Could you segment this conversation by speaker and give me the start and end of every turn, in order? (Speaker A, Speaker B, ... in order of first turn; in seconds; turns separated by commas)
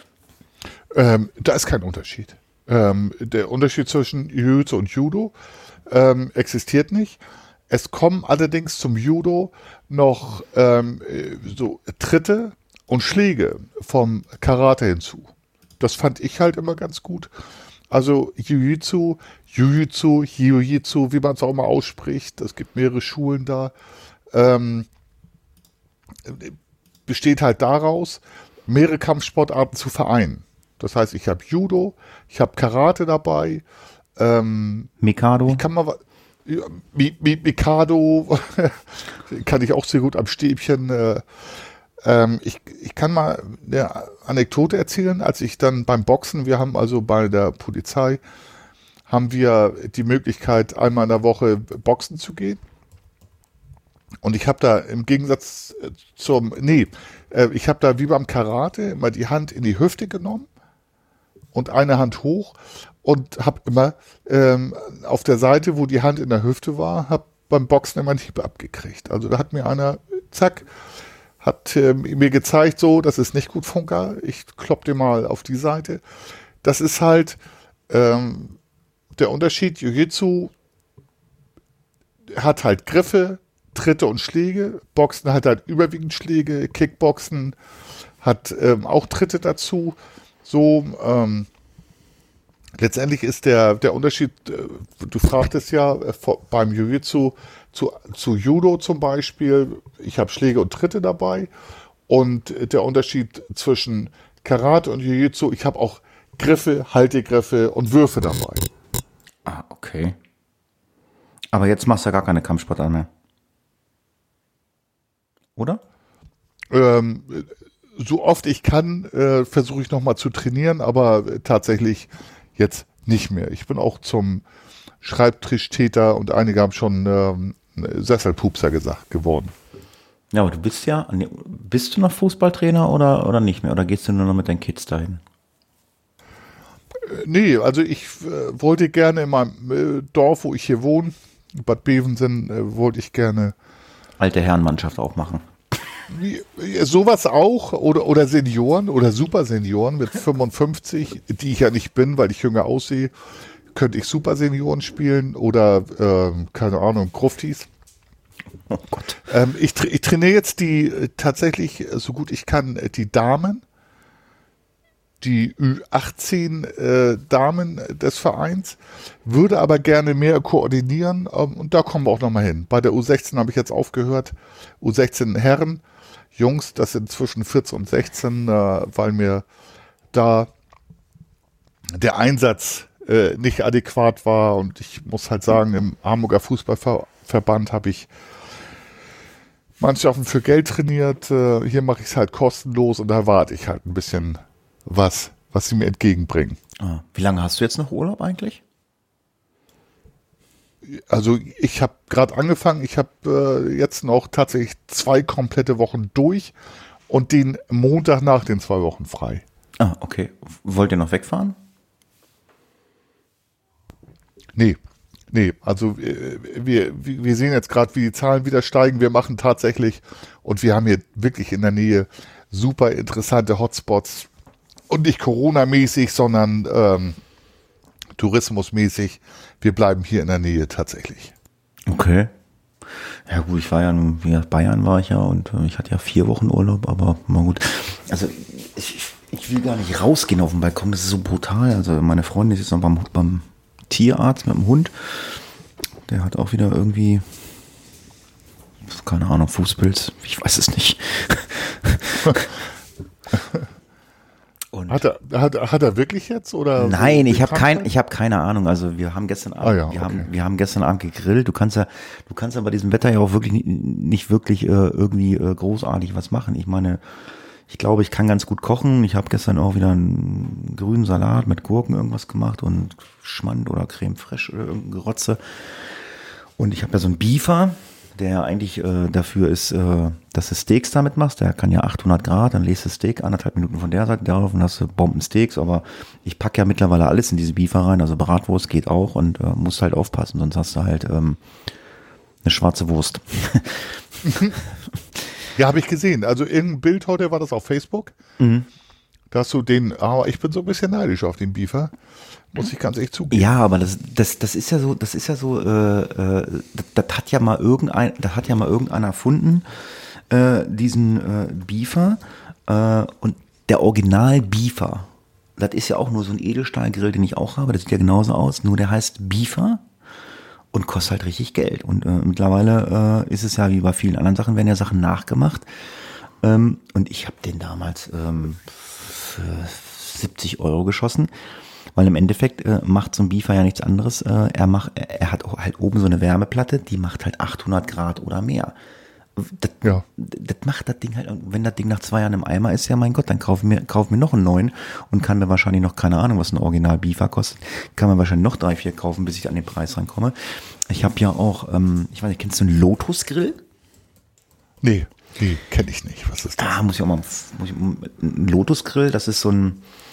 Speaker A: 0.9-5.3, Speaker A: 5.9-17.3, Speaker A: 17.9-23.7, Speaker A: 24.3-24.9, Speaker A: 26.2-26.5, Speaker A: 27.1-33.6, Speaker A: 34.1-34.9, Speaker B: 35.0-35.6, Speaker A: 35.5-41.2, Speaker A: 42.0-48.2, Speaker A: 49.1-52.6, Speaker A: 54.2-60.5, Speaker A: 61.5-70.7, Speaker A: 71.4-76.0, Speaker A: 76.6-78.6, Speaker A: 79.2-80.5, Speaker A: 82.3-87.5, Speaker A: 88.2-91.5, Speaker A: 92.7-101.5, Speaker A: 102.1-108.7, Speaker B: 109.5-110.2, Speaker B: 111.5-113.1, Speaker B: 115.6-115.8, Speaker A: 116.7-124.4, Speaker A: 125.0-129.5, Speaker B: 130.3-135.2, Speaker A: 137.0-143.5, Speaker B: 144.2-145.4, Speaker A: 146.1-153.1, Speaker A: 153.7-157.7, Speaker B: 158.7-159.2, Speaker A: 159.3-163.6, Speaker A: 165.2-175.8, Speaker A: 176.3-179.4, Speaker A: 180.1-180.5, Speaker A: 181.9-188.1, Speaker A: 189.8-196.6, Speaker B: 196.8-198.6, Speaker A: 200.8-206.5, Speaker A: 207.1-209.4, Speaker B: 209.8-211.6, Speaker A: 215.3-224.3, Speaker A: 224.9-227.2, Speaker A: 228.2-231.3, Speaker B: 231.8-232.3, Speaker B: 233.3-245.4, Speaker B: 246.1-247.2, Speaker B: 248.9-252.6, Speaker B: 254.7-255.0, Speaker A: 254.9-257.9, Speaker B: 256.8-267.0, Speaker A: 259.6-260.3, Speaker B: 267.7-275.9, Speaker B: 276.6-291.4, Speaker B: 292.4-294.6, Speaker A: 295.6-298.1, Speaker B: 298.4-298.7, Speaker A: 299.3-301.9, Speaker A: 302.5-303.5, Speaker B: 303.3-309.6, Speaker B: 310.3-319.8, Speaker B: 320.7-325.6, Speaker B: 326.4-331.3, Speaker B: 331.9-338.7, Speaker B: 339.4-353.6, Speaker A: 354.8-356.8, Speaker B: 356.6-359.8